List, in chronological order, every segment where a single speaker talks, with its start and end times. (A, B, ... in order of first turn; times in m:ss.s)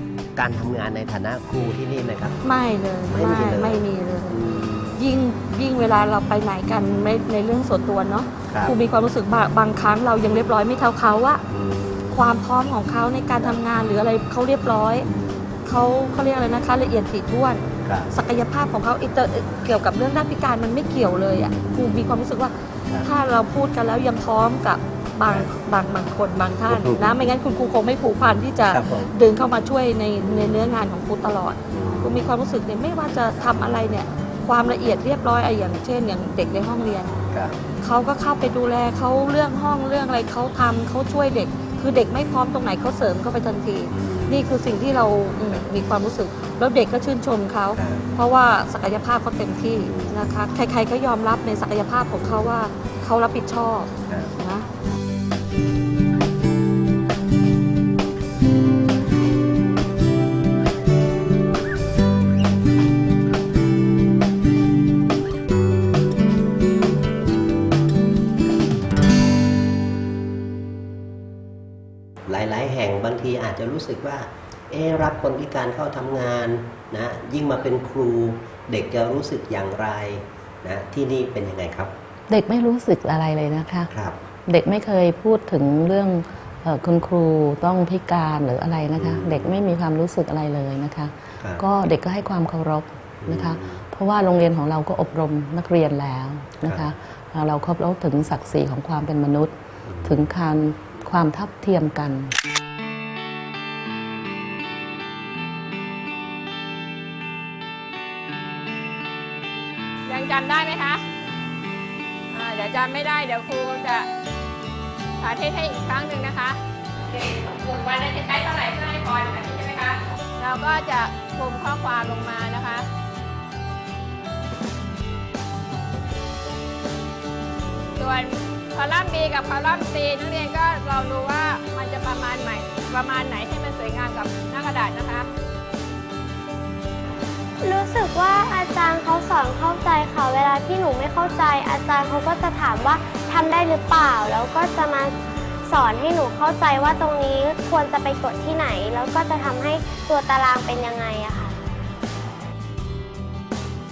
0:00.4-0:02.4 A
0:02.4-0:04.4 B
0:03.1-0:05.0 A
0:05.0-0:11.4 B
0:08.5-0:08.8 A
0:11.5-0:12.2 A
0:12.1-0:15.1 B
0:15.0-0:15.6 A
0:15.6-0:37.1 B
0:17.8-0:18.1 A
0:21.3-0:22.1 A
0:26.7-0:27.1 A
0:28.7-0:29.1 A
0:31.7-0:32.2 A
0:37.3-0:37.6 A
0:37.8-0:54.6 B
0:43.9-0:44.5 A
0:47.8-0:48.0 A
0:49.9-0:50.2 A
1:12.3-1:21.9 A
1:22.3-1:23.9 C
1:23.9-1:24.2 A
1:24.4-1:42.3 C
1:29.0-1:29.6 A
1:31.4-1:31.6 A
1:33.2-1:33.8 A
1:39.8-1:40.2 A
1:50.1-1:51.0 D
1:52.3-1:54.1 D
1:55.2-2:02.9 D
2:08.0-2:15.3 D
2:17.6-2:31.7 E